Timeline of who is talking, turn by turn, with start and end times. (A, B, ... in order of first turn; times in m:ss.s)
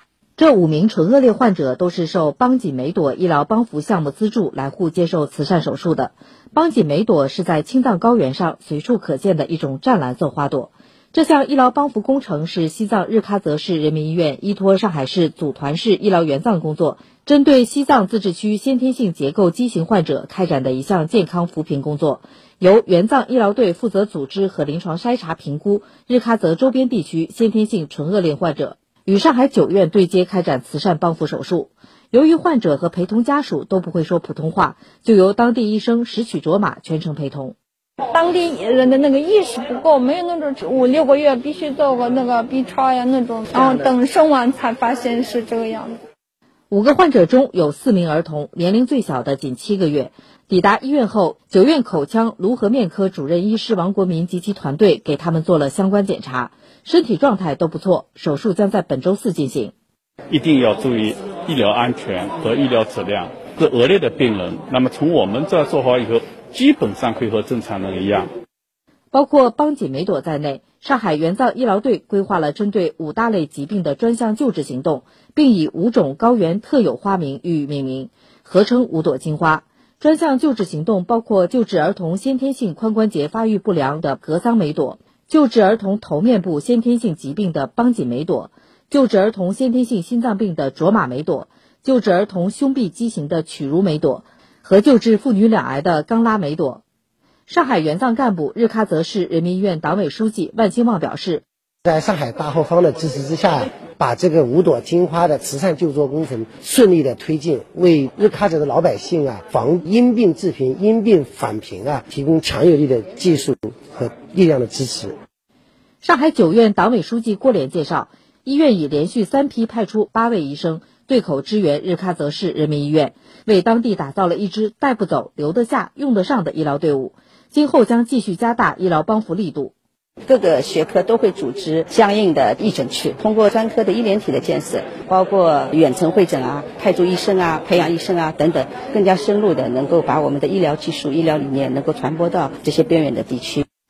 0:00.4-0:37.6 A
0:38.1-0:46.0 B
0:46.7-0:59.7 A
1:00.3-1:08.3 C
1:09.1-1:36.8 A
1:37.5-1:41.4 A
1:41.8-1:55.2 D
1:56.0-2:09.7 A
2:10.2-2:23.6 E